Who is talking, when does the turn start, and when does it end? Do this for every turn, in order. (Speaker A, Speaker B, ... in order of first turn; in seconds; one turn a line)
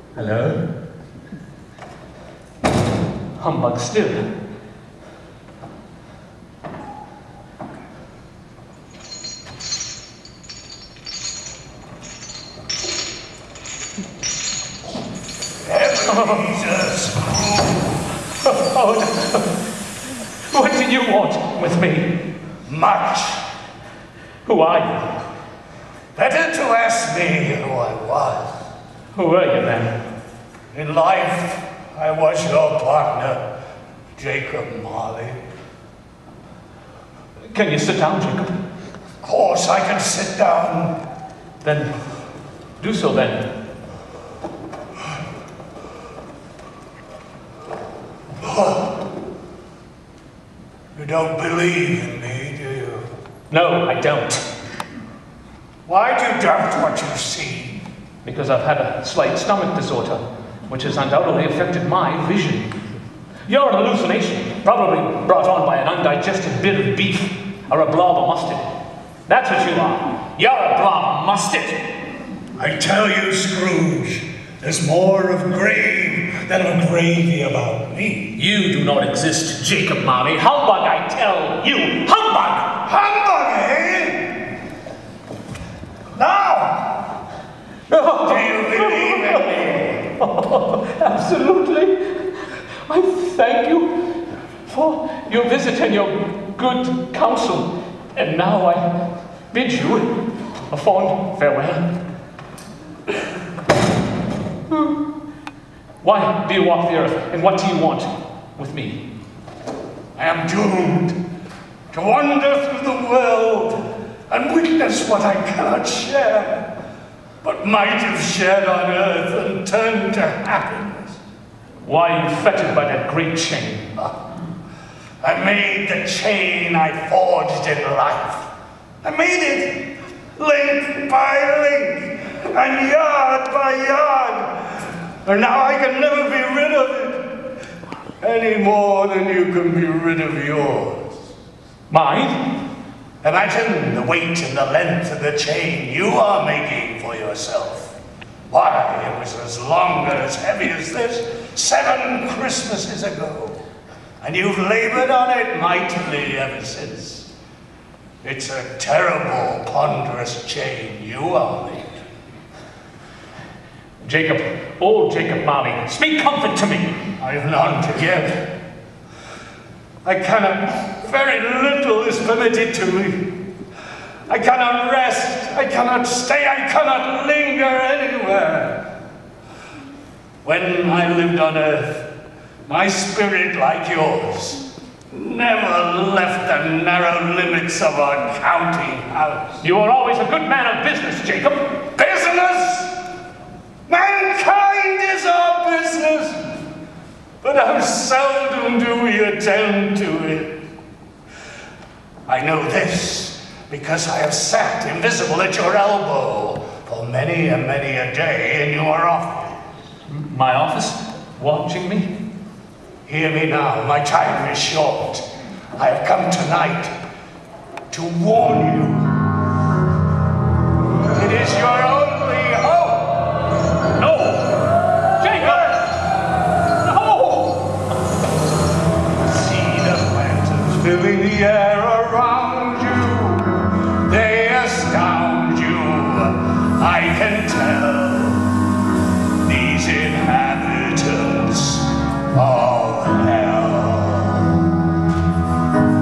Speaker A: 0.2-0.6
Speaker A: 3.4-4.3
Speaker B: 15.6-17.8
Speaker A: 16.1-16.5
Speaker A: 18.4-19.6
Speaker A: 20.5-22.2
Speaker B: 22.7-23.4
Speaker A: 24.4-25.1
Speaker B: 26.1-28.5
Speaker A: 29.1-29.9
Speaker B: 30.7-33.4
Speaker B: 34.2-35.4
Speaker A: 37.5-38.5
Speaker B: 39.2-40.9
Speaker A: 41.6-41.9
Speaker A: 42.8-43.5
Speaker B: 48.4-49.0
Speaker B: 51.0-53.1
Speaker A: 53.5-54.4
Speaker B: 55.9-57.8
Speaker A: 58.2-62.7
Speaker A: 63.5-68.7
Speaker A: 69.3-71.8
Speaker B: 72.6-78.3
Speaker A: 78.4-82.8
Speaker B: 82.8-84.5
Speaker B: 86.2-87.0
Speaker A: 87.9-98.9
Speaker B: 88.2-90.0
Speaker A: 99.5-101.8
Speaker A: 104.7-105.0
Speaker A: 106.0-109.0
Speaker B: 110.2-111.2
Speaker B: 111.9-116.7
Speaker B: 117.4-121.2
Speaker A: 121.8-123.9
Speaker B: 125.2-128.5
Speaker B: 129.0-129.8
Speaker B: 130.4-137.4
Speaker B: 138.2-141.2
Speaker A: 141.9-142.4
Speaker B: 143.2-147.9
Speaker B: 148.5-153.6
Speaker B: 154.2-157.3
Speaker B: 158.2-161.9
Speaker A: 164.0-167.0
Speaker B: 167.2-168.5
Speaker B: 170.0-173.2
Speaker B: 174.3-178.8
Speaker B: 180.4-182.0
Speaker B: 182.7-189.6
Speaker A: 189.6-191.7
Speaker B: 192.0-193.0
Speaker B: 193.9-196.4
Speaker B: 197.4-200.6
Speaker B: 202.3-209.6
Speaker A: 210.1-212.1
Speaker B: 213.1-215.2
Speaker B: 215.8-216.9
Speaker B: 217.9-219.1
Speaker B: 221.1-223.3
Speaker B: 224.0-224.4
Speaker A: 224.0-224.5
Speaker A: 225.2-226.0
Speaker A: 226.8-227.6
Speaker B: 229.2-238.5
Speaker B: 239.4-244.6